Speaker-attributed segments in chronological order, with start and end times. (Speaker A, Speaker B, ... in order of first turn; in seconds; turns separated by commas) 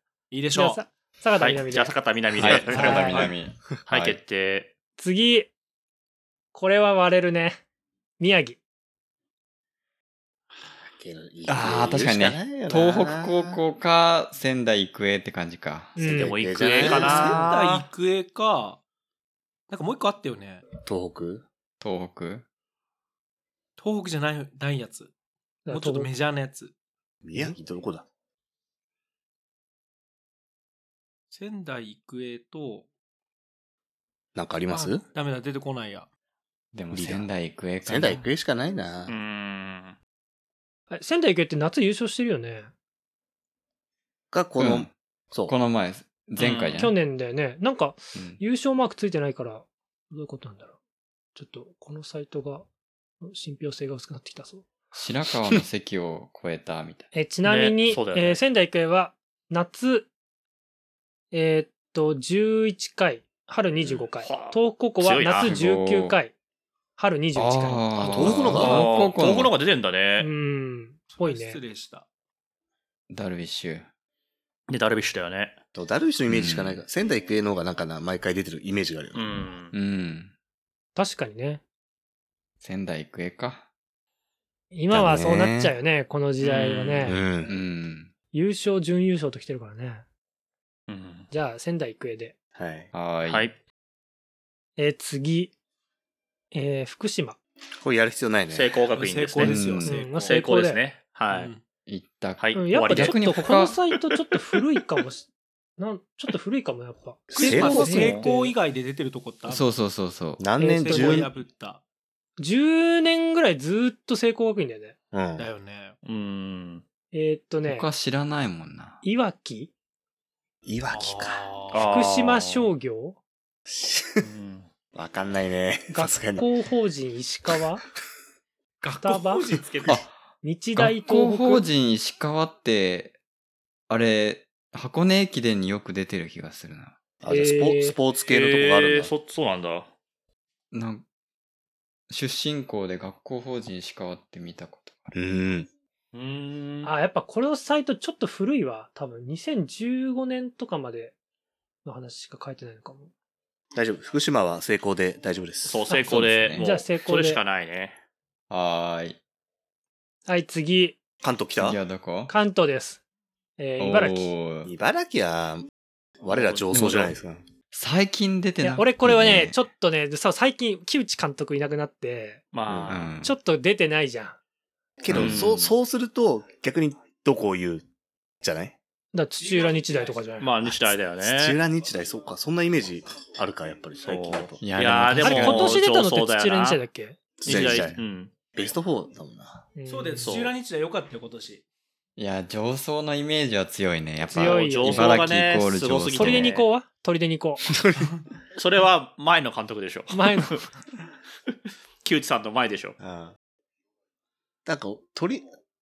Speaker A: 0.3-0.8, Speaker B: 0.5-1.9, Speaker C: 1.4-3.3, Speaker D: 2.4-4.2, Speaker E: 2.4-3.3, Speaker B: 2.8-3.2, Speaker C: 3.9-4.7, Speaker B: 5.0-5.5, Speaker B: 6.5-7.6, Speaker B: 8.2-8.6, Speaker E: 10.8-13.6, Speaker D: 11.4-15.9, Speaker B: 15.9-16.3, Speaker E: 16.0-17.5, Speaker C: 16.1-17.9, Speaker A: 16.8-18.8, Speaker A: 19.7-20.6, Speaker E: 20.8-21.4, Speaker D: 21.8-22.4, Speaker A: 23.8-25.1, Speaker B: 25.6-26.1, Speaker A: 25.7-26.7, Speaker E: 27.2-28.0, Speaker A: 31.3-32.9, Speaker E: 34.3-35.0, Speaker A: 34.7-36.1, Speaker D: 36.7-38.3, Speaker E: 36.9-37.3, Speaker E: 37.8-39.1, Speaker C: 39.1-40.0, Speaker B: 40.9-42.7, Speaker E: 44.3-45.5, Speaker D: 44.6-44.9, Speaker D: 45.5-46.9, Speaker C: 46.4-46.8, Speaker B: 46.7-50.7, Speaker D: 48.1-48.4, Speaker B: 51.3-52.7, Speaker B: 53.2-55.0, Speaker D: 55.0-57.1, Speaker B: 57.1-60.1, Speaker C: 57.4-58.4, Speaker B: 61.3-66.3, Speaker C: 64.2-65.5, Speaker D: 65.4-66.2, Speaker B: 67.0-67.9, Speaker D: 67.3-69.5, Speaker E: 67.9-68.9, Speaker C: 68.4-70.3, Speaker B: 70.2-71.6, Speaker A: 71.1-72.0, Speaker D: 73.1-73.8, Speaker C: 74.7-75.5, Speaker E: 75.7-79.4, Speaker D: 76.3-76.8, Speaker C: 79.1-79.7, Speaker D: 79.7-80.3, Speaker B: 80.9-81.6, Speaker D: 82.6-83.6, Speaker B: 84.7-87.2, Speaker E: 84.9-85.7, Speaker C: 86.4-87.2, Speaker E: 87.0-87.6, Speaker D: 87.4-88.1, Speaker B: 88.3-90.0, Speaker C: 90.9-91.3, Speaker B: 91.3-92.3, Speaker E: 92.5-92.9, Speaker D: 92.9-93.5, Speaker C: 93.2-93.6, Speaker B: 94.8-95.5, Speaker B: 96.5-97.4, Speaker E: 97.7-98.7, Speaker C: 98.5-99.7, Speaker A: 98.9-100.4, Speaker D: 99.4-100.1, Speaker B: 99.8-100.8, Speaker C: 100.2-101.5, Speaker A: 101.3-101.6, Speaker D: 101.9-103.8, Speaker C: 102.4-103.6, Speaker B: 102.5-108.5, Speaker E: 107.3-108.2, Speaker A: 107.3-109.7, Speaker C: 107.8-108.3, Speaker D: 109.5-110.5, Speaker E: 110.4-111.4, Speaker B: 110.6-111.3, Speaker A: 110.7-111.8, Speaker B: 112.4-114.9, Speaker E: 115.1-115.5, Speaker A: 115.4-116.0, Speaker C: 116.0-116.8, Speaker B: 117.1-117.9, Speaker D: 117.6-119.0, Speaker B: 119.0-119.7, Speaker E: 120.6-121.4, Speaker A: 120.9-121.8, Speaker C: 121.6-122.7, Speaker B: 121.7-123.2, Speaker E: 123.7-124.2, Speaker C: 124.2-124.7, Speaker E: 124.9-126.5, Speaker B: 125.9-127.8, Speaker A: 128.8-130.0, Speaker B: 129.0-129.5, Speaker D: 129.9-130.1, Speaker B: 130.4-131.7, Speaker D: 130.8-133.2, Speaker D: 133.9-136.9, Speaker E: 137.2-139.1, Speaker B: 137.3-138.0, Speaker C: 138.2-139.9, Speaker D: 140.7-141.0, Speaker D: 142.1-145.1, Speaker E: 145.1-145.7, Speaker C: 146.1-146.9, Speaker B: 146.8-151.1, Speaker B: 151.8-153.1, Speaker E: 153.7-155.8, Speaker C: 155.6-158.0, Speaker D: 155.9-156.7, Speaker B: 156.5-157.4, Speaker D: 158.5-159.2, Speaker B: 160.3-161.0, Speaker E: 161.2-161.8, Speaker D: 161.6-162.3, Speaker B: 162.3-163.0, Speaker B: 163.6-164.3, Speaker D: 163.8-164.7, Speaker E: 164.6-165.7, Speaker E: 166.2-167.4, Speaker C: 166.3-167.1, Speaker D: 166.7-167.0, Speaker D: 167.7-169.6, Speaker B: 168.6-172.4, Speaker C: 172.5-173.1, Speaker E: 172.7-173.1, Speaker D: 172.9-173.3, Speaker B: 173.2-174.4, Speaker E: 175.0-177.8, Speaker D: 175.1-175.5, Speaker C: 175.1-175.7, Speaker E: 178.4-178.8, Speaker B: 179.1-180.5, Speaker A: 179.4-180.4, Speaker C: 180.4-181.6, Speaker E: 180.6-184.7, Speaker C: 184.0-186.8, Speaker D: 184.6-185.8, Speaker B: 185.2-187.2, Speaker E: 187.4-188.0, Speaker C: 187.4-188.3, Speaker E: 188.5-189.7, Speaker B: 189.8-190.3, Speaker A: 189.8-191.6, Speaker C: 190.2-190.5, Speaker D: 192.2-196.6, Speaker B: 194.3-195.2, Speaker C: 194.3-196.7, Speaker B: 196.1-197.6, Speaker E: 197.7-198.1, Speaker C: 198.5-200.6, Speaker B: 200.1-200.7, Speaker C: 202.0-203.0, Speaker E: 203.0-203.3, Speaker E: 204.7-205.5